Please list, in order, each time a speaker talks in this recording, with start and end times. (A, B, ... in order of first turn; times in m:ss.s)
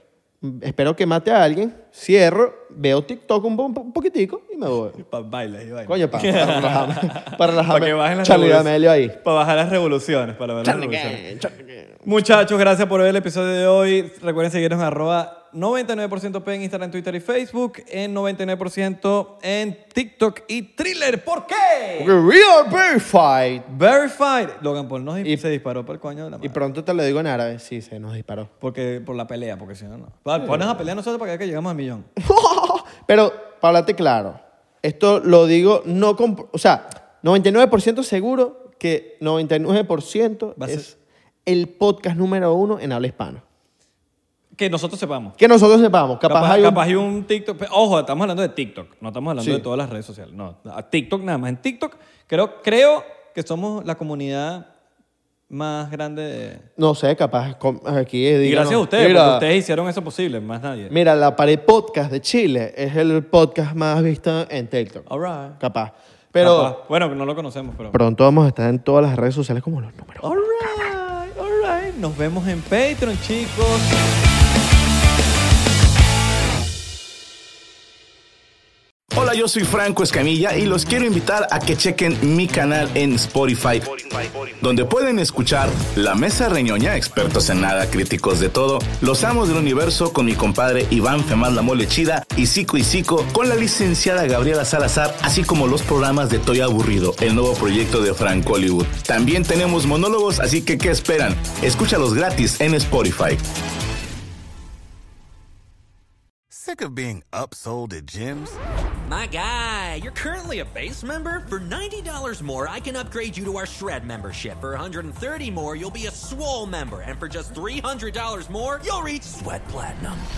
0:00.4-0:05.0 A
0:05.0-0:11.2 B
0:05.9-0:09.2 A
0:10.6-0:12.0 A
0:12.0-0:22.2 B
0:22.0-0:23.7 A
0:23.7-0:26.6 B
0:26.4-0:28.5 A
0:28.6-0:32.1 B
0:30.4-0:30.8 A
0:32.2-0:43.4 A
0:40.6-0:40.9 B
0:44.5-0:45.4 B
0:45.4-0:46.9 A
0:46.3-0:54.7 B
0:49.4-0:49.6 A
0:55.5-0:56.7 B
0:56.8-0:59.4 A
0:58.4-1:00.9 B
1:00.9-1:06.8 A
1:05.1-1:05.6 B
1:06.4-1:08.0 B
1:07.9-1:10.9 A
1:10.2-1:14.0 B
1:19.1-1:43.4 C
1:46.5-1:48.6 D
1:49.0-2:00.3 E